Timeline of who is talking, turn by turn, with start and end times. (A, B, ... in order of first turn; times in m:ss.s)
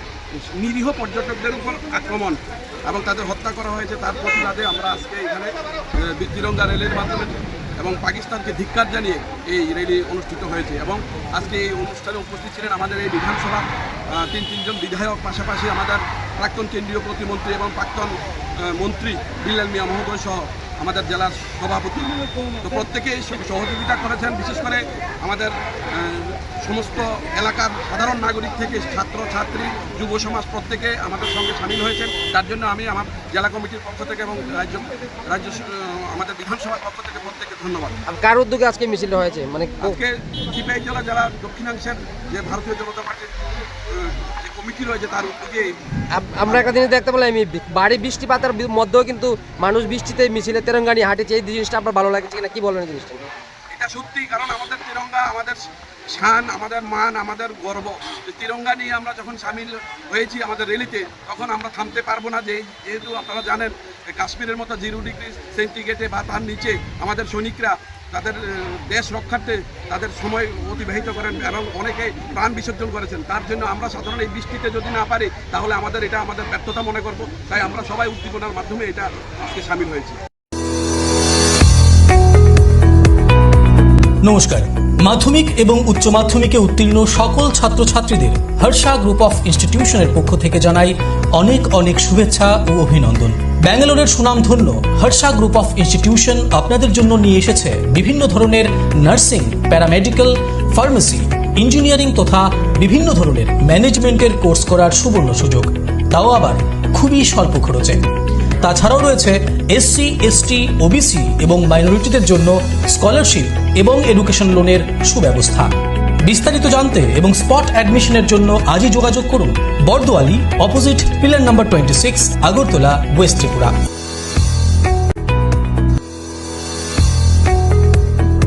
0:00.3-0:18.2 A
0:18.7-0:38.0 A
0:38.1-0:40.0 B
0:39.8-0:43.3 A
0:43.9-0:45.7 A
0:46.2-0:53.3 B
0:53.7-1:20.2 A
1:24.2-1:48.0 C
1:48.6-2:03.7 C